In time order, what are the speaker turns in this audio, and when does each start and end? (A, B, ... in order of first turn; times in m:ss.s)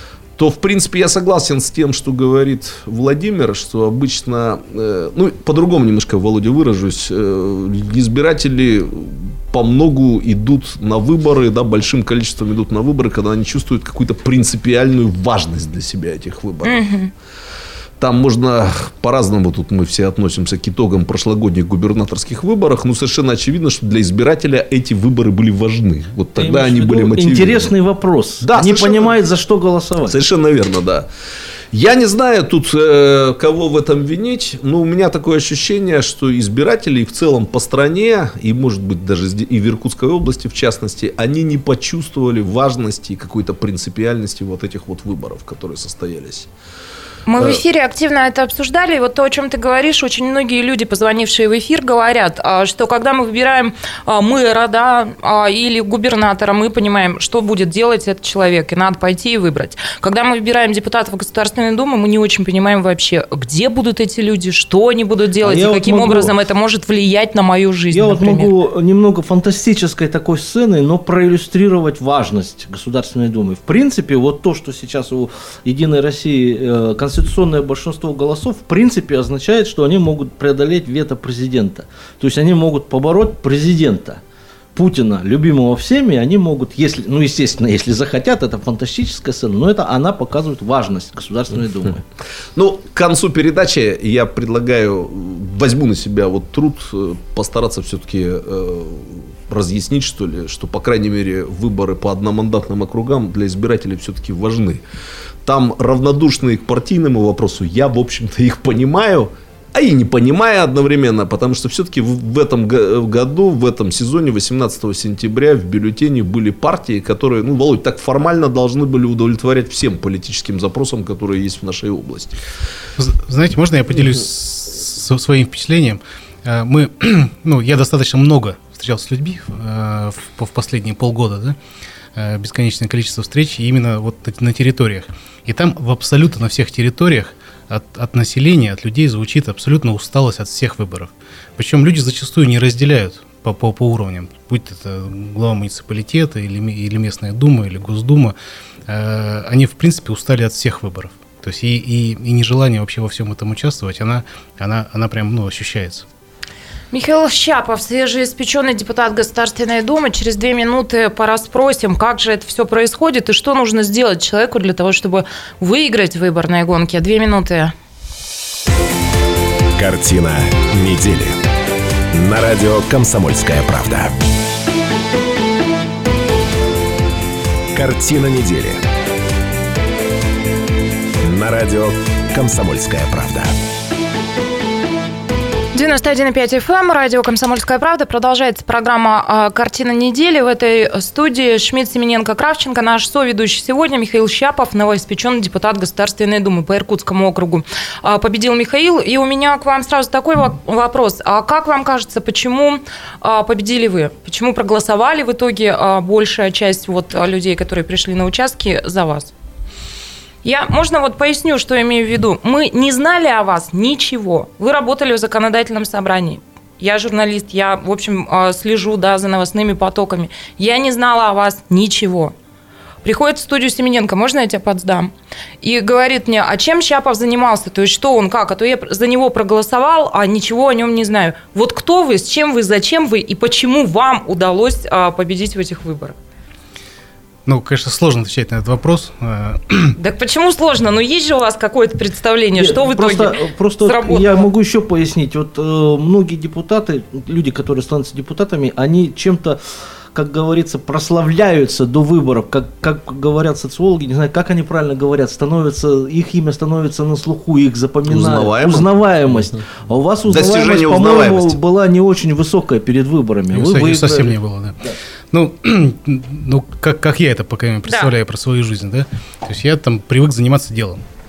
0:00.4-0:16.8 A
0:16.6-0:17.1 B
0:18.0-0:27.7 A
0:26.4-0:30.2 C
0:28.4-0:29.2 A
0:30.1-0:31.1 A
0:31.7-0:46.5 A
0:47.3-1:08.5 B
1:05.4-1:06.3 C
1:07.9-1:24.2 C
1:24.7-1:32.0 C
1:32.6-1:44.8 A
1:45.4-2:02.4 A
2:03.0-2:11.6 D
2:12.2-2:28.3 D
2:28.9-2:36.0 D
2:36.9-2:47.7 B
2:49.8-2:51.4 E
2:52.1-2:54.1 E
2:57.7-2:58.8 E
3:01.2-3:03.5 E
3:05.7-3:29.3 B
3:30.4-3:42.3 B
3:43.0-3:56.2 B
3:57.4-4:00.0 D
4:00.0-4:04.5 B
4:02.6-4:09.6 C
4:10.1-4:24.3 C
4:18.1-4:19.4 A
4:20.3-4:21.6 A
4:23.5-4:24.8 D
4:25.3-4:31.0 D